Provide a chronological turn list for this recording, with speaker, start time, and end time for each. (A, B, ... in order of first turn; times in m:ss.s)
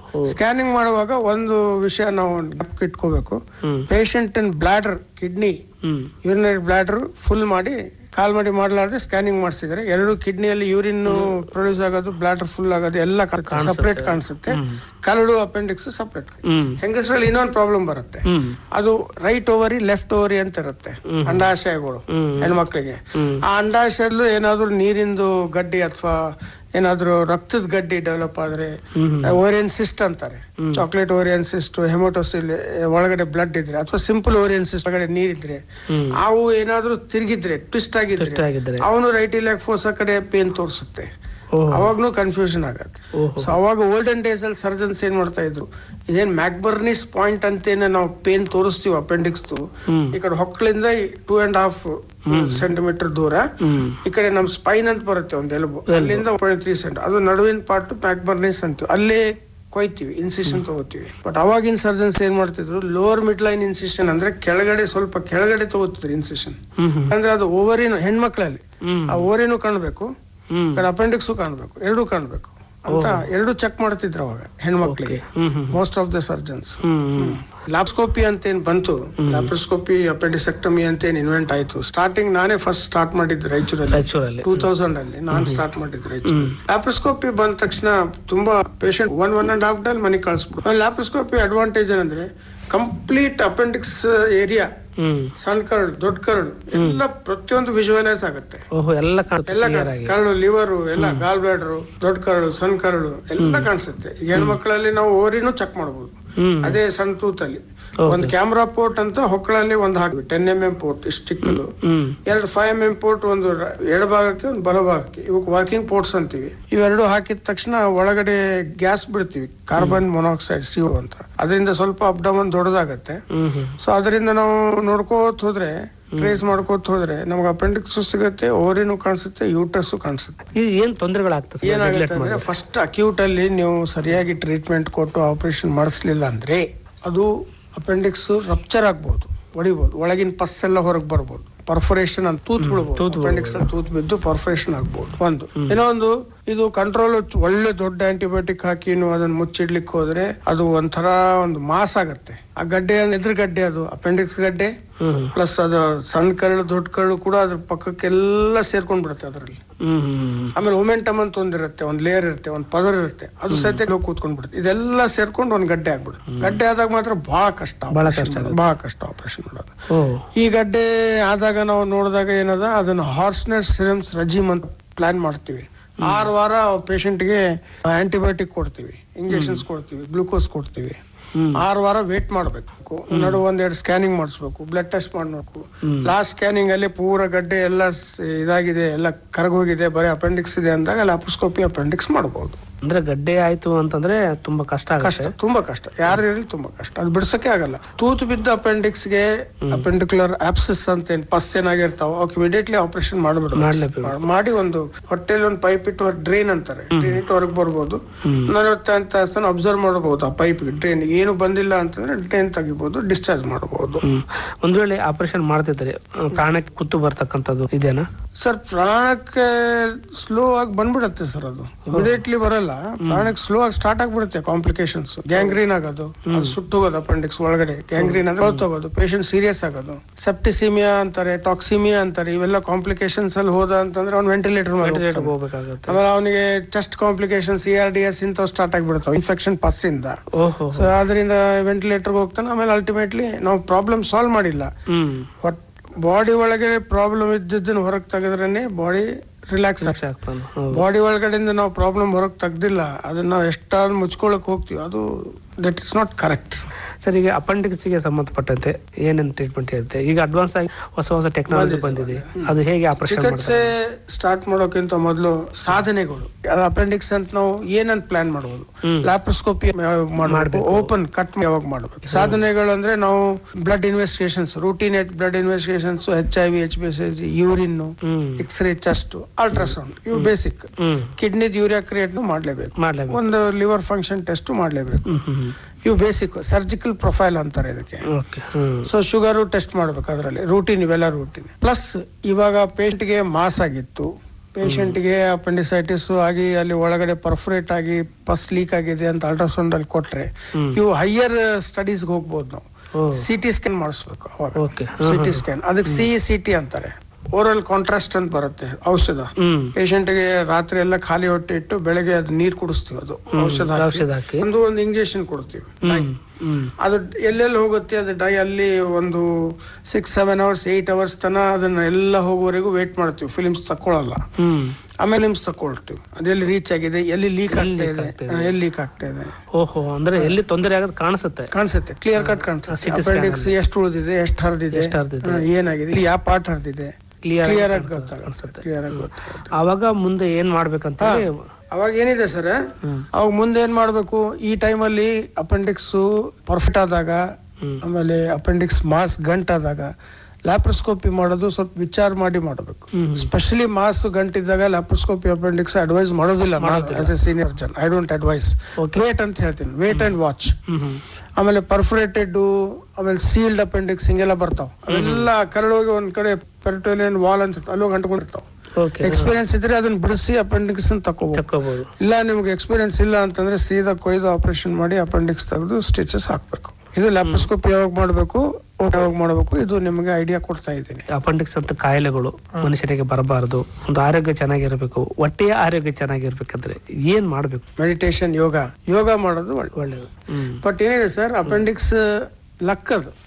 0:00.2-0:05.6 A
0:05.8-0:06.1 B
0:06.2-0:26.2 A
0:11.1-0:11.5 B
0:13.5-0:14.8 B
0:16.5-0:16.8 B
0:18.3-0:18.6 B
0:21.1-0:21.5 B
0:22.1-0:22.6 B
0:23.2-0:23.4 B
0:26.8-0:28.7 A
0:29.0-0:29.4 B
0:29.2-0:41.1 A
0:35.9-0:36.2 B
0:38.2-0:38.8 B
0:41.6-0:41.9 B
0:41.7-0:53.5 A
0:43.2-0:43.6 B
0:49.9-0:50.2 B
0:52.3-0:52.6 B
0:53.6-0:54.0 B
0:54.0-1:06.6 A
0:55.9-0:56.2 B
1:06.8-1:07.1 B
1:07.1-1:10.1 A
1:08.9-1:09.3 B
1:10.5-1:10.8 B
1:10.8-1:15.2 A
1:12.9-1:13.2 B
1:14.8-1:15.8 B
1:15.7-1:34.7 A
1:16.8-1:17.4 B
1:19.2-1:19.5 B
1:23.9-1:24.7 B
1:25.3-1:25.6 B
1:26.3-1:26.6 B
1:35.0-1:35.3 B
1:35.4-1:38.6 A
1:36.7-1:37.0 B
1:38.7-1:40.2 B
1:39.5-1:51.7 A
1:41.0-1:41.2 B
1:43.4-1:43.7 B
1:46.4-1:46.8 B
1:48.0-1:48.3 B
1:51.4-1:52.2 B
1:52.3-2:03.2 A
1:59.8-2:00.0 B
2:03.3-2:03.8 B
2:03.8-2:10.4 A
2:06.1-2:06.4 B
2:10.6-2:12.5 B
2:11.6-2:34.7 A
2:22.6-2:23.7 B
2:35.0-2:35.3 B
2:35.4-2:39.6 A
2:39.8-2:40.6 B
2:40.6-2:49.7 A
2:43.5-2:43.8 B
2:46.3-2:46.6 B
2:47.9-2:48.6 B
2:49.9-2:50.3 B
2:50.4-3:01.0 A
2:56.0-2:56.3 B
2:59.3-2:59.6 B
3:01.6-3:12.6 A
3:03.1-3:03.4 B
3:12.8-3:15.3 B
3:15.0-3:34.0 A
3:23.6-3:24.2 B
3:26.9-3:27.2 B
3:28.2-3:28.5 B
3:34.0-3:38.1 B
3:38.4-3:55.3 A
3:41.9-3:42.2 B
3:43.0-3:43.3 B
3:46.3-3:46.6 B
3:48.0-3:48.6 B
3:54.8-3:56.0 B
3:55.9-4:00.2 A
4:00.4-4:01.0 B
4:00.7-4:04.7 A
4:04.9-4:05.3 B
4:05.4-4:10.0 A
4:09.8-4:10.8 B
4:10.7-4:15.0 A
4:15.6-4:16.6 A
4:17.0-4:23.7 B
4:21.5-4:45.1 A
4:30.3-4:30.9 B
4:32.1-4:32.4 B
4:38.0-4:38.4 B
4:39.5-4:41.1 B
4:42.8-4:43.2 B
4:45.1-4:45.5 B
4:45.8-4:48.1 A
4:48.1-4:48.9 B
4:48.9-5:16.1 A
4:54.6-4:55.0 B
5:03.0-5:03.2 B
5:04.6-5:06.1 B
5:09.4-5:09.7 B
5:13.3-5:14.5 B
5:15.9-5:16.7 B
5:16.8-5:19.3 A
5:19.9-5:24.2 A
5:24.4-5:24.8 B
5:25.0-5:29.4 A
5:27.5-5:28.6 B
5:29.6-5:31.5 B
5:31.5-5:36.9 A
5:32.2-5:33.5 B
5:34.7-5:35.5 B
5:37.2-5:41.3 B
5:37.4-5:39.5 A
5:41.0-5:42.6 A
5:43.1-5:47.2 A
5:47.8-5:49.9 A
5:50.5-6:00.6 A
5:53.0-5:53.3 B
5:56.6-5:57.2 B
5:59.9-6:00.2 B
6:00.7-6:01.0 B
6:01.4-6:08.4 A
6:04.9-6:05.3 B
6:08.8-6:09.4 B
6:09.0-6:11.4 A
6:11.3-6:11.9 B
6:12.0-6:21.1 A
6:17.2-6:17.5 B
6:21.1-6:27.7 B
6:27.8-6:29.8 A
6:29.8-6:30.6 B
6:30.6-6:33.1 A